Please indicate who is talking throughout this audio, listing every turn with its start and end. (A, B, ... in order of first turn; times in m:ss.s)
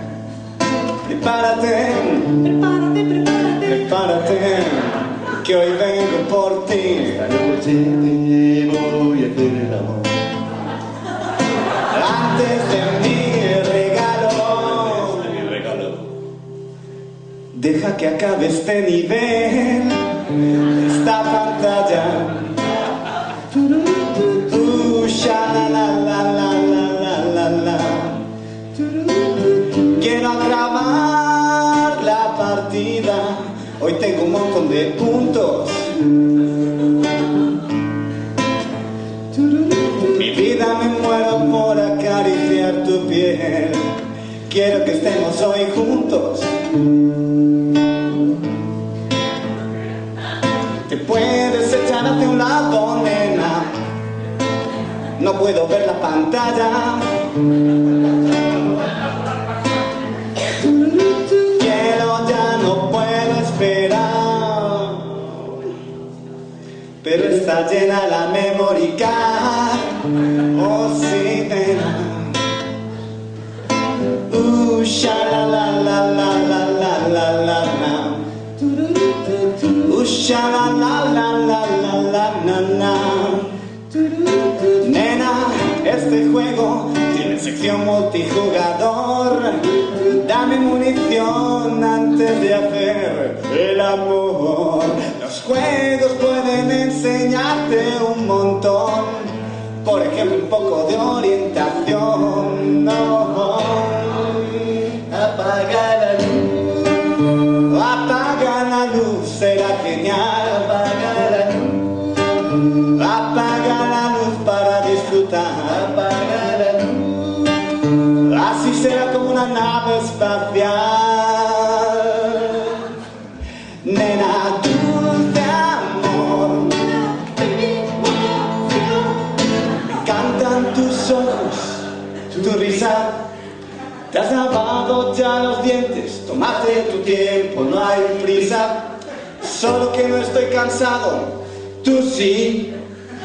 0:01.0-0:02.6 A
0:03.5-0:10.1 A
0:11.9-0:15.5 A
0:17.5-0:20.1 A
0:20.8-0:22.6 A
0:23.5-0:28.2 A
0:28.8-0:35.9 A
0:39.4-0:43.9 A
0:44.5-0:46.5 A
0:50.9-0:53.8 A
0:55.2-0:57.1 A
1:00.8-1:05.3 A
1:07.0-1:10.0 A
1:10.5-1:12.4 A
1:14.3-1:46.9 A
1:47.7-1:51.9 A
1:53.0-1:57.7 A
1:58.2-2:02.9 A
2:03.8-2:09.3 A
2:10.0-2:13.3 A
2:14.1-2:22.8 A